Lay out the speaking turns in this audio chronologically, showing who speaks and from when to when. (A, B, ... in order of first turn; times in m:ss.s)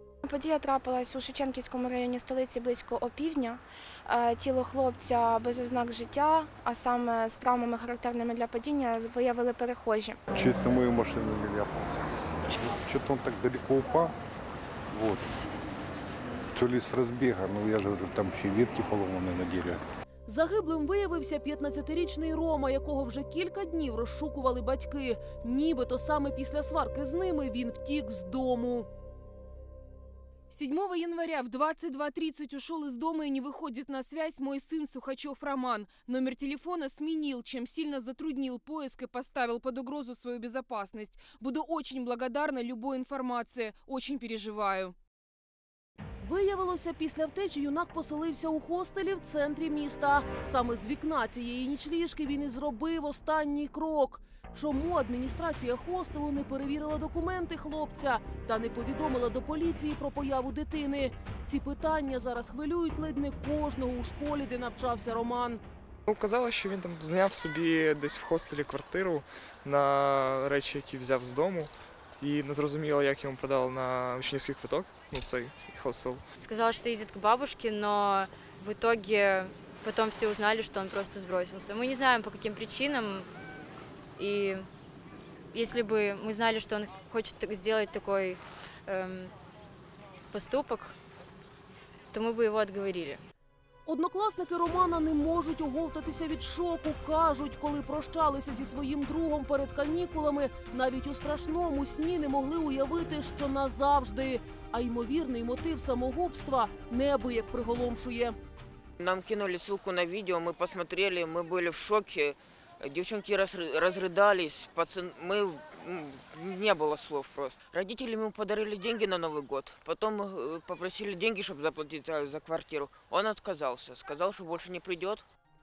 0:00.2-0:10.2 A
0:10.3-0:14.2 B
0:14.9-0:15.3 B
0:16.5-0:19.8 B
0:20.3-0:28.9 C
0:30.5-0:44.9 D
0:46.2-1:05.6 C
1:06.1-1:16.2 E
1:16.4-1:23.3 F
1:24.2-1:24.7 F
1:25.5-1:29.3 F
1:30.3-1:31.0 F
1:32.1-1:33.2 F
1:33.9-1:48.4 C
1:49.0-2:05.2 G